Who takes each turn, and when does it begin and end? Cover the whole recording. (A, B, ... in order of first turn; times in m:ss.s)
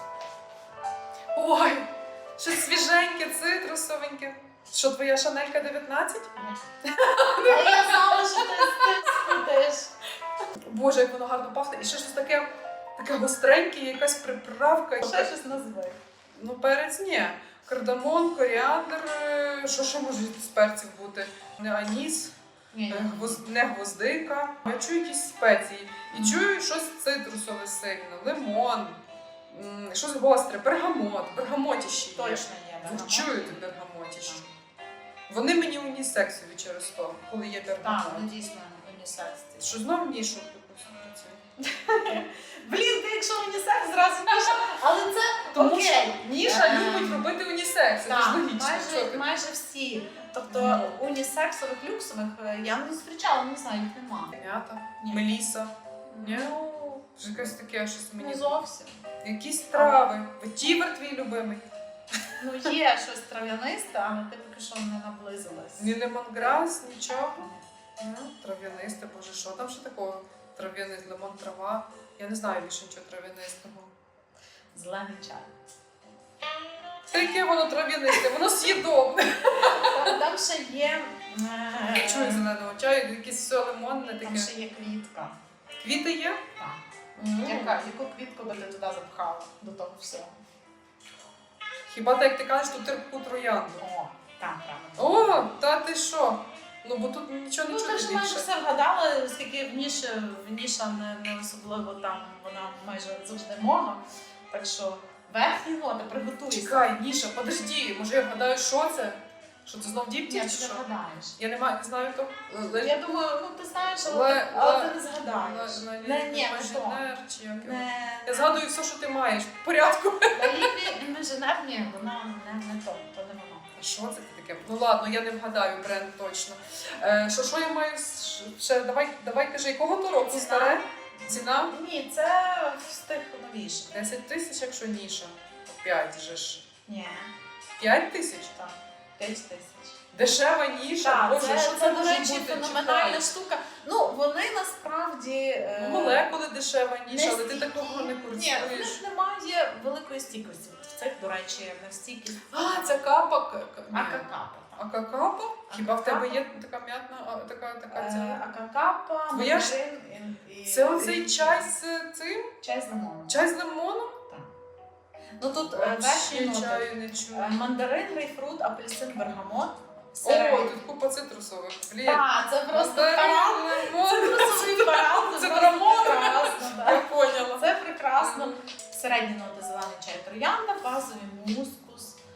0:01.3-0:06.3 A
0:06.9-0:09.3 A
0:07.2-0:09.9 B
0:10.6-0:15.3 A
0:15.0-0:16.0 B
0:16.3-0:22.3 A
0:22.7-0:23.4 B
0:22.9-0:34.4 A
0:26.1-0:26.5 B
0:32.1-0:34.5 B
0:35.3-0:38.3 A
0:37.8-0:39.7 B
0:39.6-0:41.4 A
0:41.6-0:47.3 B
0:45.5-0:49.3 A
0:48.0-0:54.4 B
0:50.5-0:51.0 A
0:54.3-0:56.6 A
0:55.0-0:55.3 B
0:56.1-0:57.2 B
0:57.2-0:58.6 A
0:58.2-0:59.0 B
0:59.2-1:01.6 A
0:59.7-1:00.1 B
1:02.4-1:06.0 B
1:05.8-1:13.9 A
1:07.4-1:07.6 B
1:14.7-1:15.5 B
1:17.1-1:20.2 A
1:19.6-1:22.5 B
1:21.9-1:24.5 A
1:24.2-1:25.3 B
1:25.8-1:26.4 A
1:26.6-1:30.3 B
1:27.2-1:27.8 A
1:31.9-1:33.8 A
1:33.8-1:35.4 B
1:35.0-1:38.5 A
1:37.7-1:46.9 B
1:46.5-1:50.8 A
1:50.3-1:51.4 B
1:51.4-1:53.0 A
1:52.8-1:58.6 B
1:54.0-2:00.8 A
2:00.3-2:03.8 B
2:03.8-2:11.7 A
2:10.2-2:13.9 B
2:13.9-2:16.6 A
2:16.9-2:17.3 B
2:17.8-2:18.5 A
2:18.5-2:20.0 B
2:20.1-2:23.3 A
2:21.0-2:26.3 B
2:25.8-2:29.0 A
2:27.1-2:33.1 B
2:32.5-2:38.4 A
2:33.9-2:34.8 B
2:35.7-2:36.4 B
2:37.9-2:41.7 B
2:39.3-2:39.8 A
2:40.7-2:42.5 A
2:42.6-2:43.4 B
2:43.3-2:44.2 A
2:45.4-2:50.8 B
2:45.7-2:47.6 A
2:50.2-2:58.6 A
2:52.0-3:02.2 B